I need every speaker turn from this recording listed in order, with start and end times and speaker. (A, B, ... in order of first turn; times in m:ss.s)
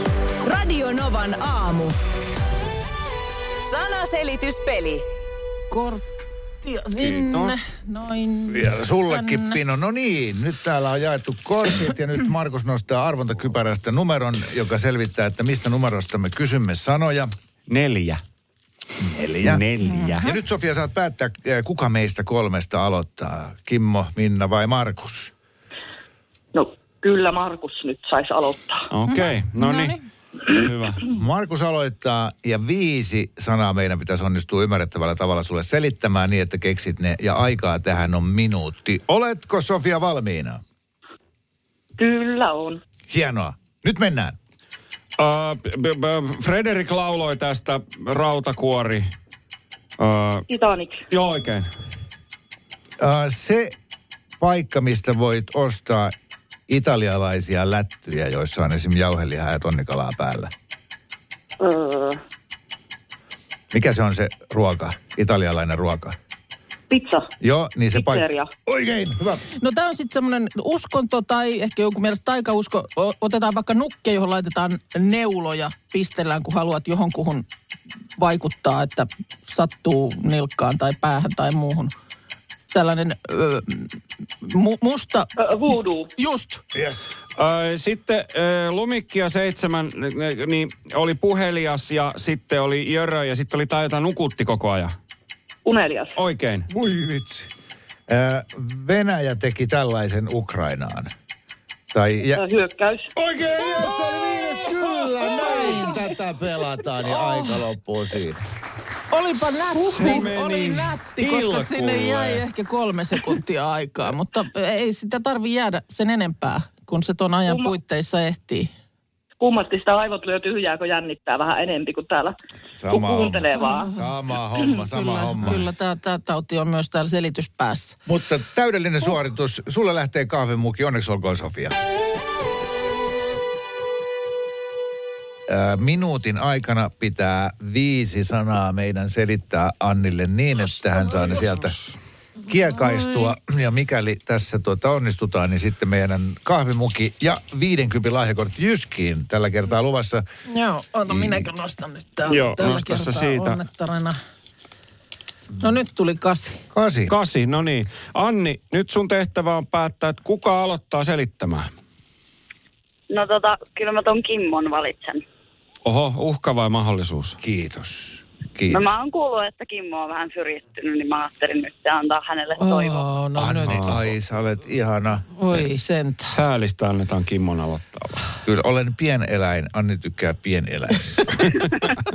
0:00.4-0:02.0 A
0:03.6-0:05.0 A
0:05.7-0:06.0 B
0:06.6-0:09.6 B
0:07.0-0:07.6 C
0:08.5-0:17.3 D
0:17.7-0:18.2 C
0:19.0-0:25.3 D
0:19.4-0:20.3 C
0:26.5-0:28.9 E
0:28.9-0:31.1 C
0:29.1-0:30.0 B
0:31.1-0:40.6 D
0:42.0-0:42.8 E
0:43.1-0:44.3 D
0:45.2-0:49.1 C
0:50.0-0:50.4 C
0:50.5-0:51.0 E
0:51.1-0:51.7 C
0:53.0-0:53.7 D
0:54.4-0:56.1 D
0:56.7-1:00.5 D
1:01.6-1:02.2 E
1:03.7-1:06.1 D
1:06.9-1:07.3 E
1:07.4-1:09.4 D
1:07.9-1:08.5 E
1:09.6-1:17.4 B
1:18.2-1:21.9 B
1:22.7-1:25.3 B
1:25.4-1:26.1 E
1:26.2-1:26.6 B
1:27.4-1:34.9 C
1:35.6-1:36.2 E
1:36.2-1:36.7 C
1:36.7-1:37.5 D
1:38.1-1:41.1 D
1:41.9-1:42.4 D
1:42.3-1:43.1 E
1:43.2-1:48.4 D
1:45.4-1:45.9 B
1:49.1-1:58.7 B
1:49.9-1:52.4 C
1:57.5-1:57.8 E
1:59.4-2:02.4 E
2:02.8-2:05.6 D
2:02.9-2:03.9 E
2:03.6-2:03.9 B
2:04.9-2:08.0 B
2:08.1-2:11.7 D
2:15.5-2:21.7 D
2:22.5-2:30.2 D
2:30.5-2:34.2 B
2:31.1-2:31.4 D
2:32.3-2:33.6 C
2:35.6-2:36.6 B
2:36.7-2:37.1 D
2:37.1-2:41.7 C
2:43.1-2:45.2 F
2:45.8-2:47.4 C
2:47.4-2:48.9 D
2:48.7-2:53.1 F
2:52.6-2:54.1 B
2:53.4-2:55.2 D
2:53.7-2:54.0 C
2:55.4-2:56.3 B
2:56.3-2:58.3 C
2:58.4-3:01.5 D